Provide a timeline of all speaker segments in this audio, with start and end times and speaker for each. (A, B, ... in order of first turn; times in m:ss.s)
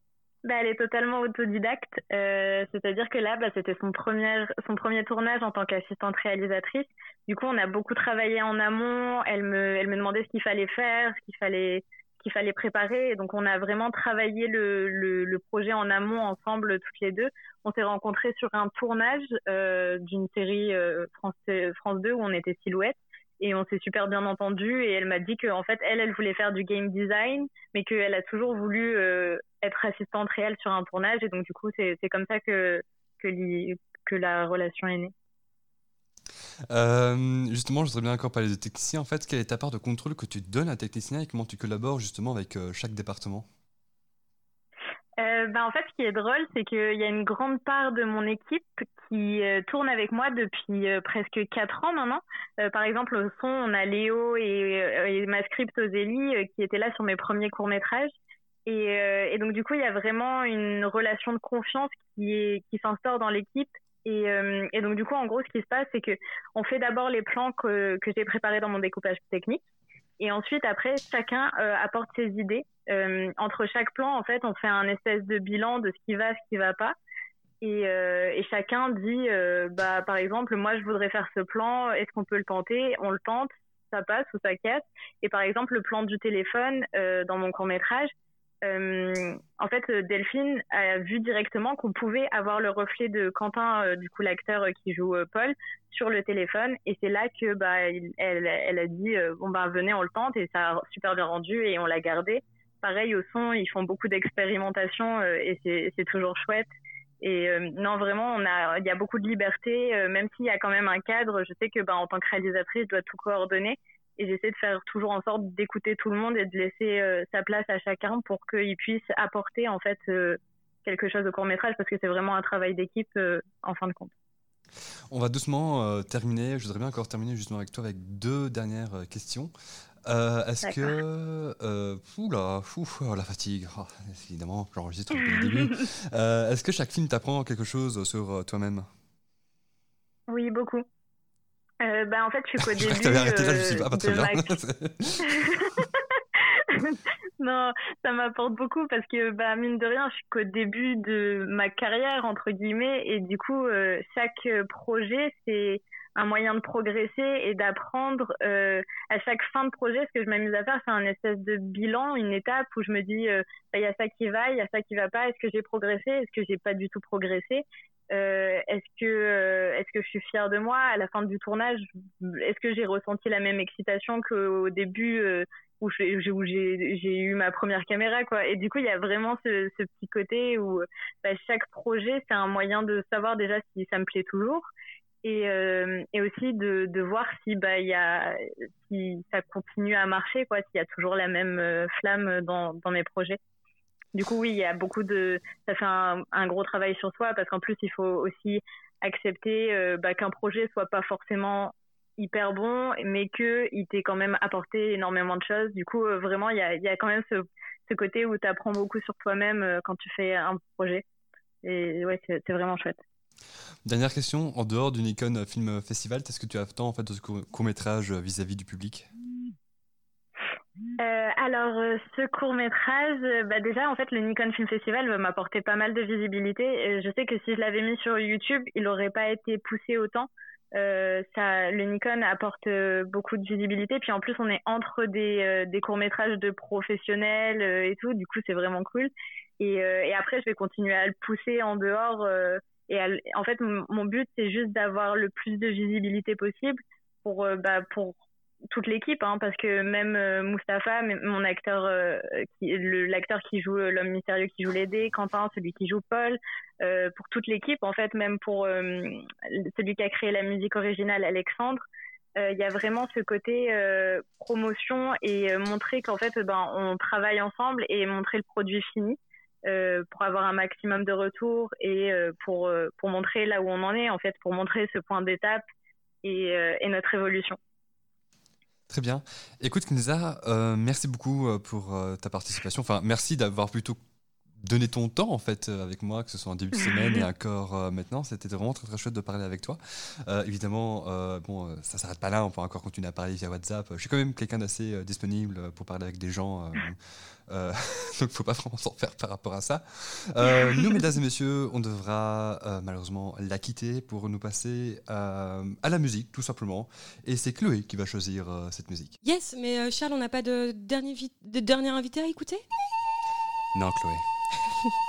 0:00.4-0:35.1 A
0:36.7-0:43.5 B
0:45.2-0:58.2 A
0:58.7-1:09.6 A
1:10.2-1:17.0 A
1:17.6-1:28.1 A
1:28.6-1:46.7 A
1:47.2-2:04.1 A
2:05.1-2:09.5 B
2:10.1-2:18.9 B
2:10.6-2:10.9 A
2:15.3-2:15.7 A
2:20.3-2:20.8 A
2:21.8-2:24.5 A
2:22.6-2:25.2 B
2:25.2-3:04.7 A
3:05.2-3:13.4 A
3:14.1-3:31.0 A
3:31.6-3:33.0 A
3:33.9-3:39.1 B
3:41.0-4:08.2 A
4:08.7-4:21.8 A
4:22.4-4:35.6 A
4:36.2-4:37.6 A
4:38.9-4:44.0 B
4:44.6-5:09.2 B
5:09.2-5:12.6 C
5:13.7-5:14.2 B